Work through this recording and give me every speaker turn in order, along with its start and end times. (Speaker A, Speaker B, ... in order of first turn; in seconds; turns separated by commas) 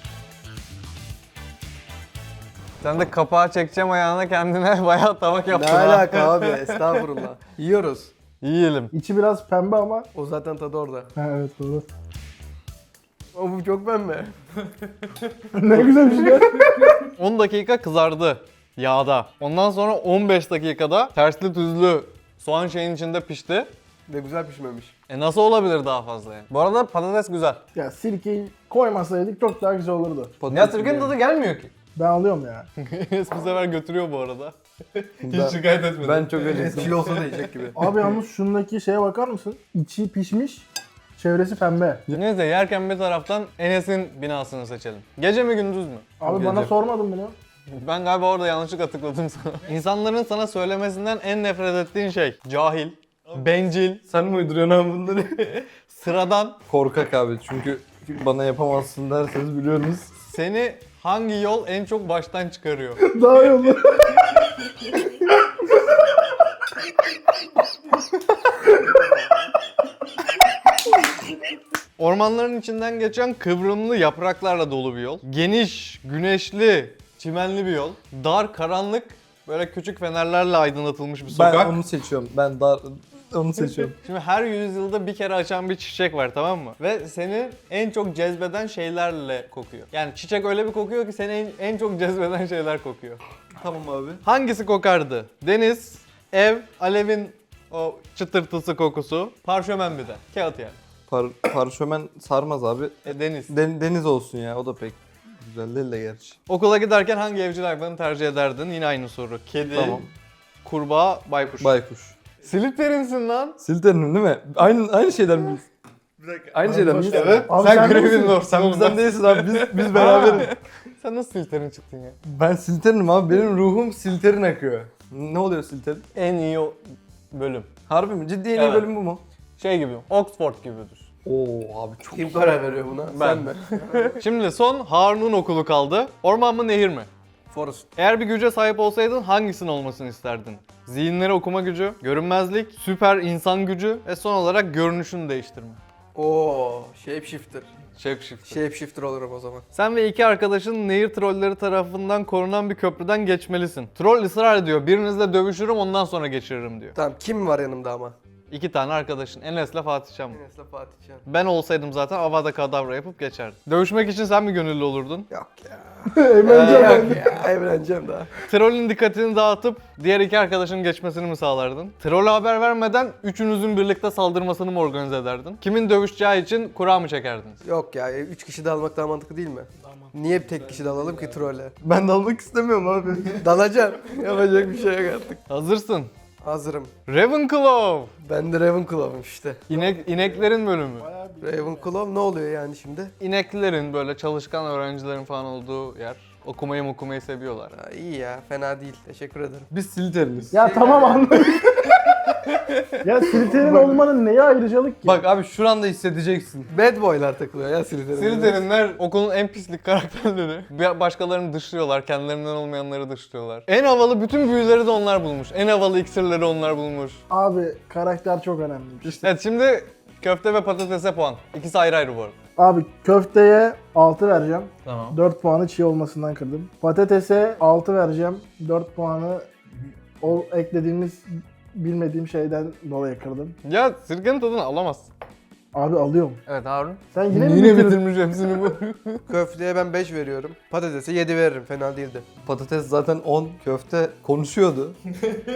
Speaker A: 2.8-7.0, Speaker B: 5.5-8.1, Speaker A: 8.4-8.9, Speaker C: 8.9-10.1, Speaker B: 10.1-11.1, Speaker C: 11.2-11.9, Speaker B: 13.3-14.4, Speaker C: 15.6-17.1, Speaker B: 15.8-16.6, Speaker A: 17.2-23.7, Speaker B: 24.1-24.9, Speaker A: 25.1-27.6, Speaker C: 27.8-30.4, Speaker D: 30.4-31.2, Speaker A: 30.5-31.7, Speaker C: 31.9-32.7, Speaker A: 32.8-37.5, Speaker D: 35.2-37.8, Speaker C: 37.8-42.0, Speaker A: 42.1-46.8, Speaker C: 46.2-47.4, Speaker A: 47.7-54.0, Speaker D: 54.1-55.6, Speaker A: 55.9-56.6, Speaker D: 56.7-60.1, Speaker A: 60.2-63.0, Speaker C: 63.0-64.2, Speaker A: 72.0-81.8, Speaker D: 81.3-84.0, Speaker A: 84.0-93.2, Speaker D: 93.6-94.2, Speaker A: 94.2-100.8, Speaker D: 101.1-106.4, Speaker A: 103.0-103.5, Speaker A: 106.5-110.0, Speaker D: 109.7-110.1, Speaker A: 110.6-111.7, Speaker D: 111.6-112.2, Speaker A: 112.4-113.6, Speaker D: 113.6-115.7, Speaker D: 116.3-120.5, Speaker B: 116.5-117.5, Speaker C: 116.6-118.3, Speaker A: 117.1-122.2, Speaker D: 122.2-126.0, Speaker A: 126.2-127.7, Speaker D: 127.9-129.2, Speaker A: 128.6-128.9, Speaker A: 129.6-131.1, Speaker D: 131.2-132.6, Speaker B: 132.1-134.2, Speaker A: 133.1-137.1, Speaker B: 137.5-137.9, Speaker A: 138.0-145.8, Speaker B: 146.2-147.7, Speaker A: 148.0-148.6, Speaker B: 148.5-149.7, Speaker A: 149.7-157.0, Speaker B: 156.9-158.2, Speaker A: 158.5-160.4, Speaker B: 160.3-161.3, Speaker A: 161.3-165.3, Speaker B: 165.3-168.3, Speaker C: 166.1-167.4, Speaker A: 166.4-167.2, Speaker A: 168.5-177.6, Speaker B: 177.6-181.7, Speaker D: 181.8-183.5, Speaker B: 183.4-185.4, Speaker A: 185.5-186.1, Speaker B: 186.4-186.9, Speaker A: 187.1-188.1, Speaker B: 188.2-189.7, Speaker A: 189.7-191.1, Speaker C: 189.7-191.9, Speaker B: 191.4-193.1, Speaker A: 193.2-197.7, Speaker B: 197.7-199.7, Speaker D: 199.7-200.5, Speaker C: 200.5-202.0, Speaker B: 200.5-201.4, Speaker A: 202.5-203.0, Speaker C: 203.0-205.2, Speaker D: 205.1-206.7, Speaker B: 206.7-208.6, Speaker A: 208.1-217.2, Speaker C: 217.3-219.3, Speaker A: 219.2-222.3, Speaker C: 222.6-229.5, Speaker A: 224.8-225.2, Speaker C: 230.2-233.6, Speaker A: 233.6-235.1, Speaker C: 235.7-236.4, Speaker A: 236.5-239.2, Speaker C: 237.1-238.0, Speaker B: 239.3-242.3, Speaker D: 242.4-245.0